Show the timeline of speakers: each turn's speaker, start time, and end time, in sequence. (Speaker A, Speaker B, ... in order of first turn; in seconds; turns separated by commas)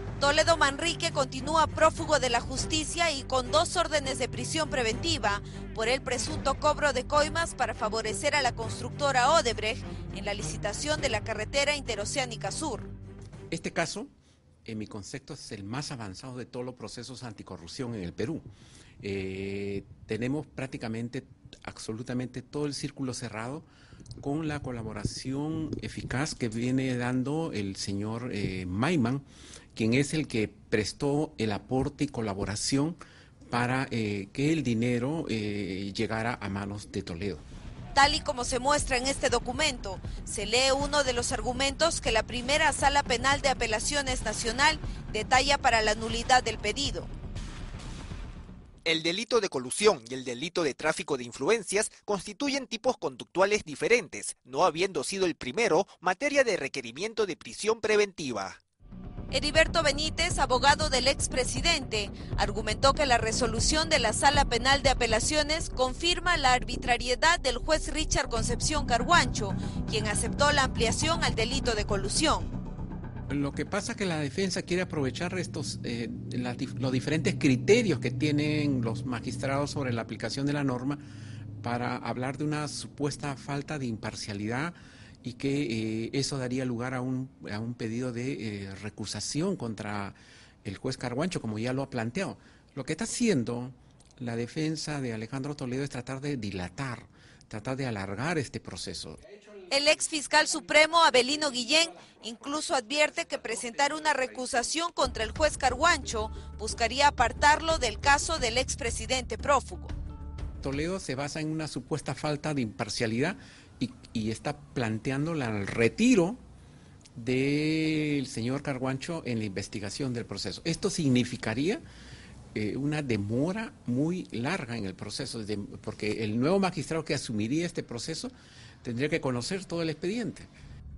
Speaker A: 0.2-12.9, Speaker B: 13.5-14.1, Speaker B: 14.6-18.4, Speaker B: 19.0-23.6, Speaker B: 24.2-29.2, Speaker B: 29.7-33.0, Speaker B: 33.5-37.4, Speaker A: 37.9-47.1, Speaker C: 48.8-58.6, Speaker A: 59.3-72.5, Speaker B: 73.3-81.0, Speaker B: 81.6-99.2, Speaker A: 99.7-109.9, Speaker B: 110.6-116.4, Speaker B: 117.2-121.8, Speaker B: 122.5-130.5